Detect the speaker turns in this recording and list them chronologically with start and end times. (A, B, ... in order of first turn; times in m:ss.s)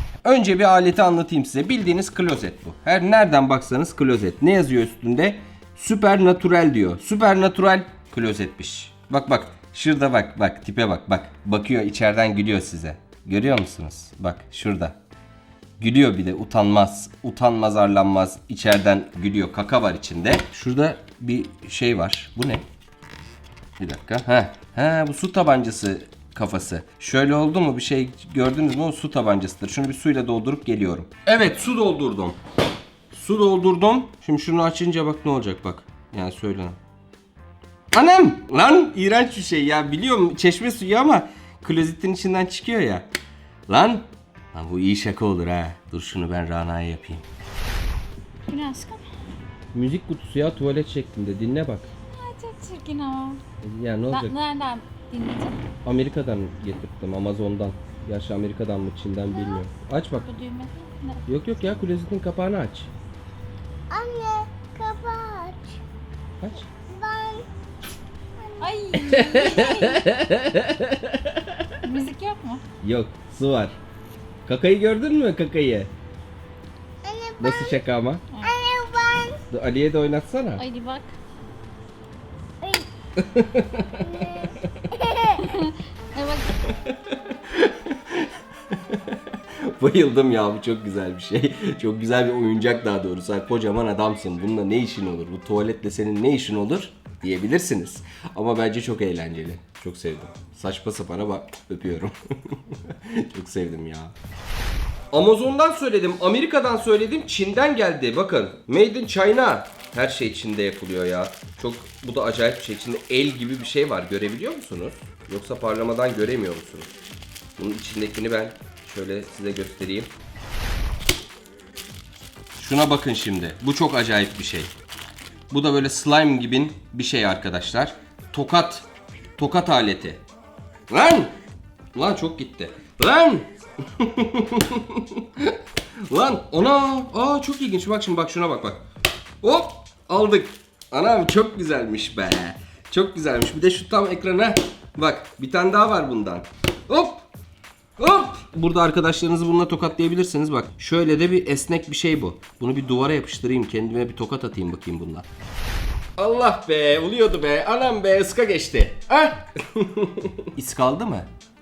0:00.2-0:15.0 A
0:15.8-0:22.6 A
0:23.8-0:32.4 A
0:33.1-0:36.8 A
0:37.9-0:43.1 A
0:43.7-0:47.3 A
0:48.5-0:49.1 B
0:49.7-0:51.9 A
0:52.1-0:53.4 B
0:53.6-0:54.4 A
0:54.1-0:55.6 B
0:55.8-1:00.3 A
1:00.2-1:01.2 B
1:01.3-1:02.9 A
1:03.9-1:05.8 C
1:06.4-1:06.7 A
1:06.8-1:07.5 C
1:08.4-1:08.8 C
1:08.6-1:10.1 B
1:08.9-1:11.8 A
1:11.8-1:12.6 B
1:12.8-1:13.8 A
1:14.4-1:15.9 A
1:17.0-1:17.8 C
1:17.4-1:18.3 A
1:18.3-1:18.6 B
1:18.4-1:19.4 C
1:19.5-1:20.6 A
1:20.6-1:21.2 B
1:22.6-1:22.9 C
1:23.2-1:25.1 A
1:24.2-1:25.3 C
1:25.2-1:26.8 B
1:26.7-1:44.2 A
1:45.1-1:56.9 A
1:57.6-2:00.1 A
2:02.6-2:04.7 A
2:05.5-2:08.9 A
2:09.4-2:10.2 A
2:10.9-2:11.4 A
2:11.9-2:18.8 A
2:19.4-2:27.3 A
2:28.0-2:35.3 A
2:36.2-2:41.3 A